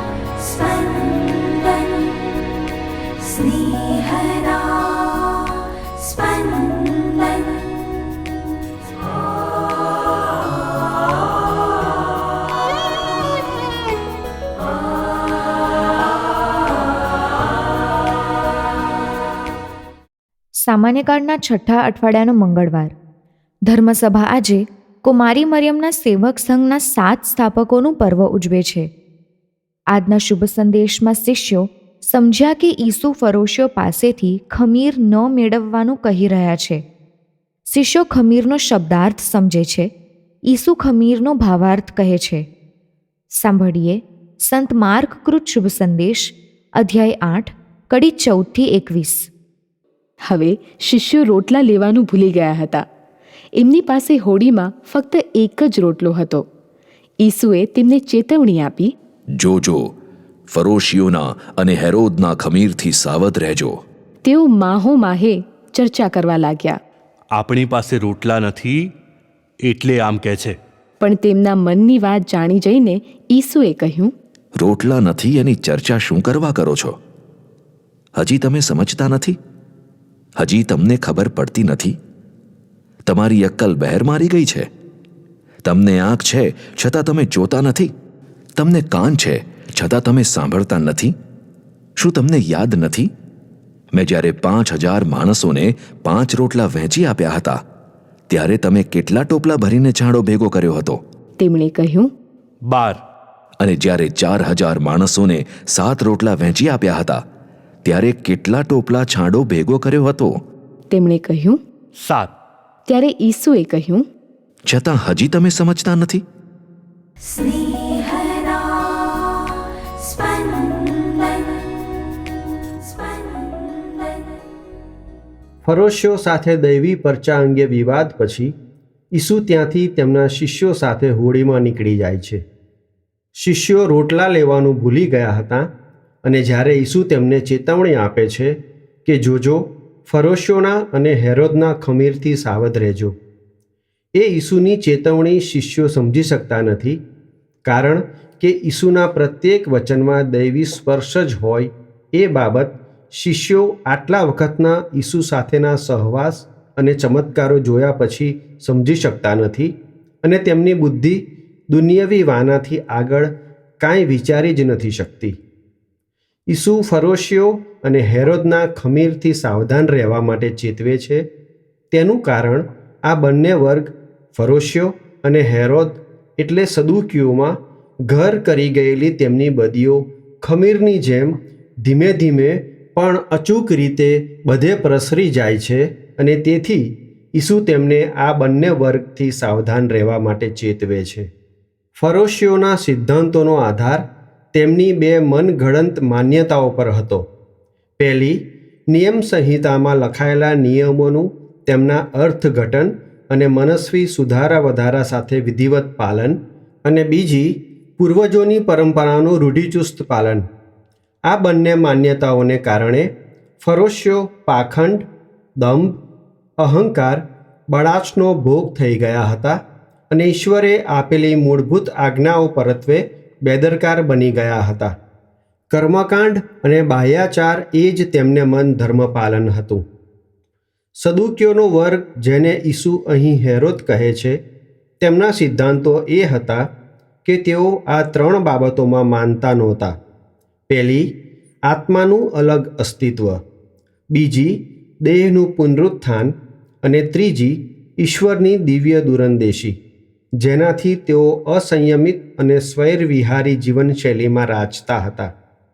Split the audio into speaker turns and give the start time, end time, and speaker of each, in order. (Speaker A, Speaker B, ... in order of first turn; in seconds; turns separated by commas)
Speaker A: 0.4-2.2, Speaker A: 3.2-7.7, Speaker B: 20.6-22.9, Speaker B: 23.7-28.9, Speaker B: 29.9-36.8, Speaker B: 37.6-39.9, Speaker B: 40.5-42.5, Speaker B: 43.3-49.3, Speaker C: 50.2-52.9, Speaker C: 53.6-56.5, Speaker C: 57.2-58.9, Speaker D: 59.3-59.9, Speaker D: 60.5-63.8, Speaker C: 64.2-66.8, Speaker E: 67.3-68.9, Speaker E: 69.6-70.6, Speaker C: 71.0-74.1, Speaker D: 74.6-77.0, Speaker D: 78.2-79.4, Speaker D: 80.4-82.0, Speaker D: 83.0-84.7, Speaker D: 85.6-87.9, Speaker D: 88.6-91.1, Speaker D: 92.0-93.1, Speaker D: 93.9-97.6, Speaker D: 98.3-101.0, Speaker C: 101.4-102.1, Speaker E: 102.6-103.0, Speaker D: 103.6-107.2, Speaker D: 107.8-110.4, Speaker C: 110.9-111.6, Speaker E: 112.0-112.3, Speaker C: 112.9-114.0, Speaker D: 114.7-116.2, Speaker A: 117.4-121.5, Speaker A: 123.2-123.8, Speaker F: 125.6-128.5, Speaker F: 129.1-132.4, Speaker F: 133.3-135.7, Speaker F: 136.2-143.2, Speaker F: 144.1-147.0, Speaker F: 147.6-165.4, Speaker F: 166.5-171.3, Speaker F: 171.9-191.3, Speaker F: 192.0-197.3, Speaker F: 198.0-210.5, Speaker F: 211.2-213.1, Speaker F: 213.6-215.1, Speaker F: 215.6-216.0, Speaker F: 216.6-224.9, Speaker F: 225.7-229.8, Speaker F: 231.0-234.4, Speaker F: 235.0-236.7, Speaker F: 237.2-240.0, Speaker F: 240.7-243.4, Speaker F: 244.1-249.8, Speaker F: 250.4-255.3